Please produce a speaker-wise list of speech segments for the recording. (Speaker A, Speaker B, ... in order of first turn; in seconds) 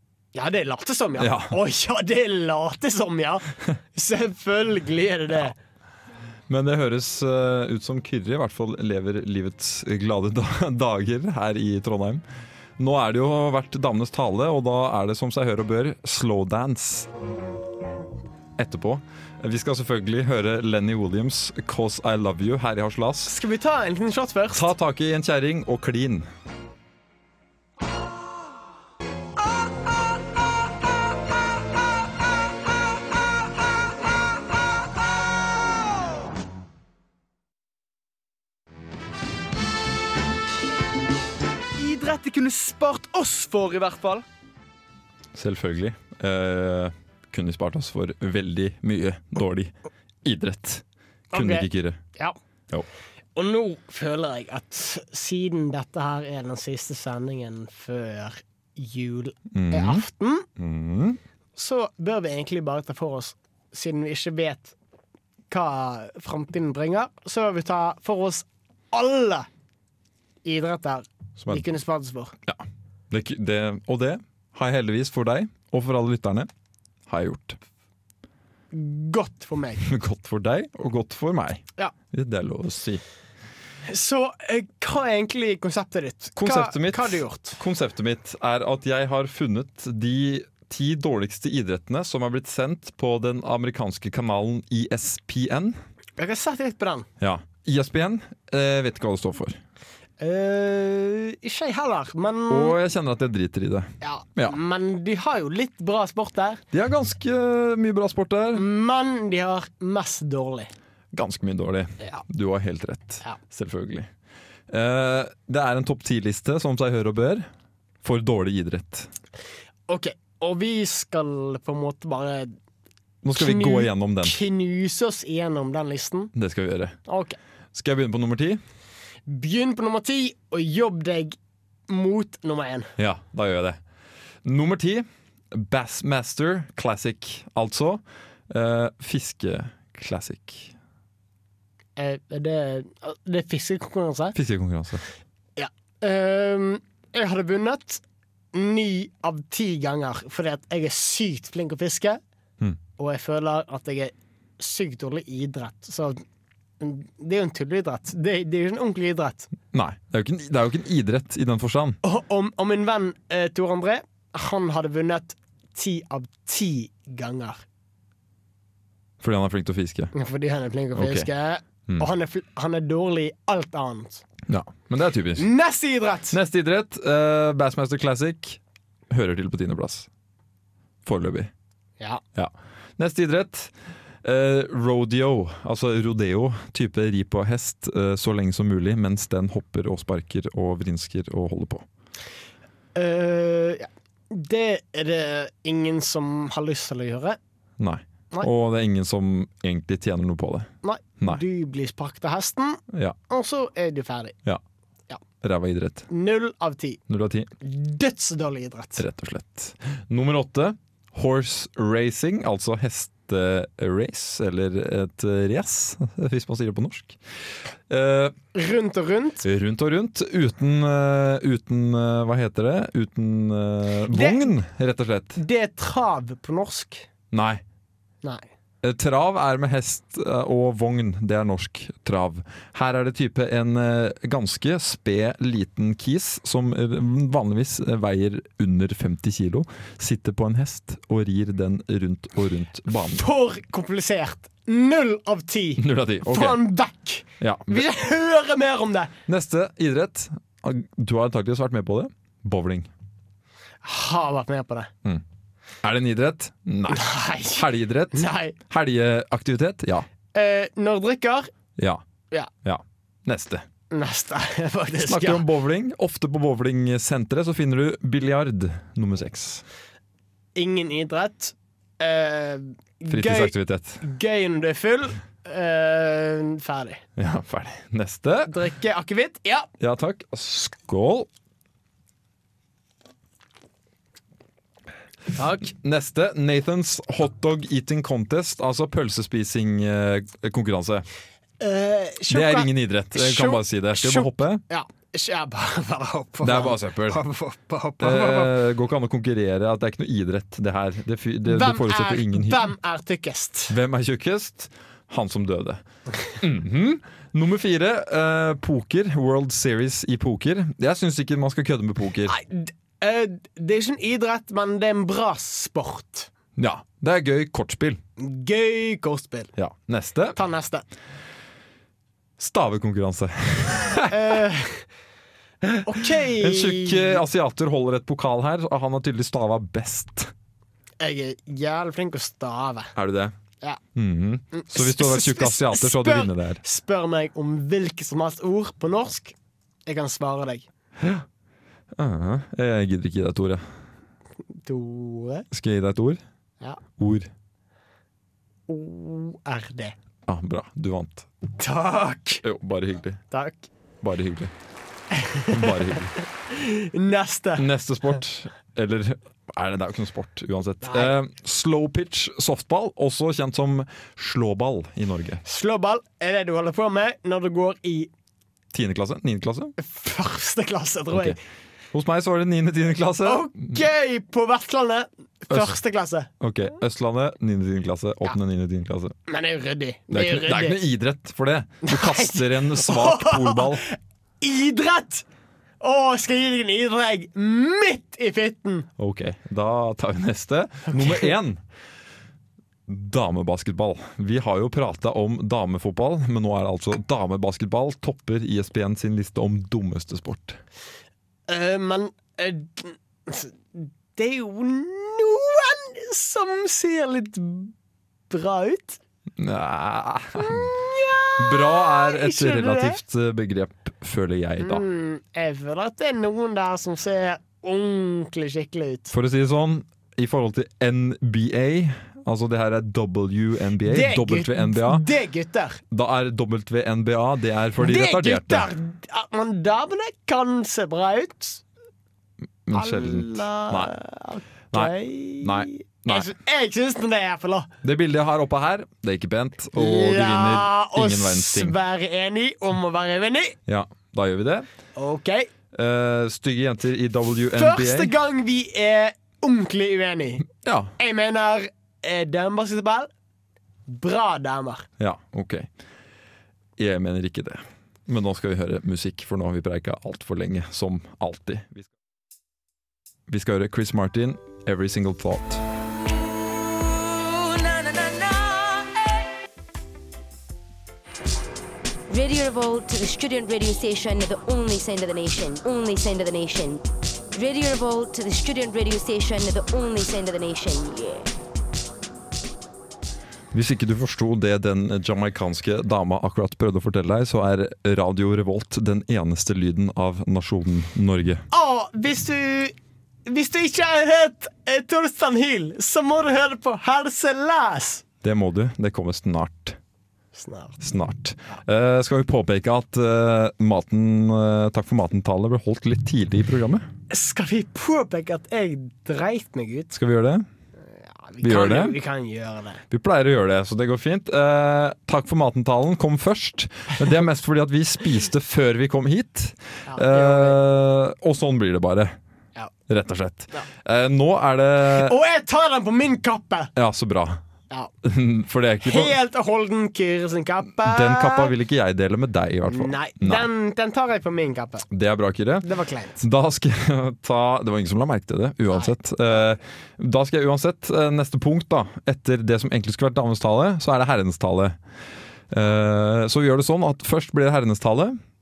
Speaker A: 0.3-5.5, 23.3-24.7, 41.8-44.2, 51.3-52.4, 53.4-60.5, 61.5-64.7, 65.5-69.5, 70.4-72.3, 78.7-79.8, 83.9-87.6, 96.2-97.1, 100.2-102.8, 104.0-106.6, 108.5-110.7, 119.9-122.5, 123.3-126.3, 127.1-127.4, 129.3-131.4, 131.9-132.9, 141.9-144.3, 145.6-152.2, 153.0-156.2, 156.8-159.5, 162.0-167.6, 170.1-174.2, 175.4-176.4, 192.9-197.4, 200.8-204.3, 206.1-207.0, 207.6-209.0, 218.5-219.4, 224.1-224.5, 225.3-227.1, 243.1-249.1, 253.8-254.9, 256.9-258.6, 260.3-261.5, 263.9-265.5, 270.6-277.0, 278.5-279.7, 285.3-285.7, 291.6-298.5, 301.4-303.7, 312.2-316.3, 318.2-319.5, 320.3-320.9, 324.0-324.9, 325.8-327.2, 331.0-332.9, 334.5-339.3, 339.9-340.7, 344.6-345.4, 348.7-349.9, 351.6-352.4, 353.3-353.7, 355.1-357.7, 360.8-361.1, 365.4-368.1, 369.8-371.4, 373.2-376.3, 379.3-380.8, 381.8-385.2, 385.8-388.9, 390.9-391.3, 401.5-407.7, 408.3-409.0, 410.4-413.0, 414.6-419.1, 423.8-425.8, 427.8-431.6, 432.7-437.7, 439.8-443.6, 444.9-445.5, 447.5-453.1, 453.9-454.9, 491.5-492.7, 493.2-498.0, 500.3-500.8, 507.1-509.9, 510.9-512.8, 519.9-520.6, 524.8-526.7, 528.8-531.5, 532.7-534.9, 535.6-536.2
Speaker B: 1.2-1.5, 6.5-12.2, 12.8-17.1, 18.6-23.3, 24.5-26.3, 45.3-52.0, 59.5-60.0, 60.6-61.2, 72.5-76.5, 77.1-77.6, 79.8-83.0, 86.3-95.8, 97.2-99.6, 102.5-104.6, 106.7-108.6, 111.1-114.1, 114.7-117.5, 118.0-119.1, 123.2-124.4, 126.3-127.0, 127.7-128.6, 133.0-133.8, 134.4-140.7, 144.3-145.0, 159.7-162.0, 169.2-170.1, 170.9-171.3, 174.5-175.5, 176.3-180.1, 181.0-181.5, 182.3-191.8, 197.8-201.4, 205.4-206.1, 207.1-207.5, 209.0-217.2, 217.9-218.3, 219.4-225.4, 227.3-227.6, 228.8-243.2, 245.8-246.6, 247.4-247.8, 249.3-252.9, 255.8-260.1, 262.6-263.6, 265.0-269.6, 273.1-274.0, 277.2-278.5, 279.8-281.3, 285.6-291.1, 292.3-294.6, 296.4-297.2, 298.0-302.7, 303.7-305.8, 306.4-312.3, 316.6-318.0, 319.6-320.4, 322.4-324.4, 325.6-330.3, 332.9-333.4, 333.9-336.6, 341.0-341.2, 341.9-343.6, 345.5-346.2, 347.0-347.3, 350.2-351.3, 352.4-353.2, 354.0-354.5, 355.5-356.1, 357.6-365.4, 368.7-369.7, 371.1-371.4, 371.9-373.8, 375.5-375.8, 376.4-379.1, 380.1-383.8, 389.0-391.6, 392.9-400.6, 409.4-410.8, 411.4-414.8, 419.1-425.0, 425.9-428.7, 432.6-433.9, 434.7-436.3, 437.8-441.8, 443.7-444.7, 445.7-448.1, 450.6-450.9, 455.0-455.7, 456.8-461.9, 463.3-465.6, 483.5-491.4, 498.2-499.8, 500.8-506.9, 509.9-510.5, 511.4-512.0, 512.9-522.2, 522.9-525.1, 526.8-527.4, 528.0-529.1, 530.8-533.5, 534.9-544.8, 545.5-548.2
Speaker C: 466.6-469.1, 472.1-476.8, 477.3-481.3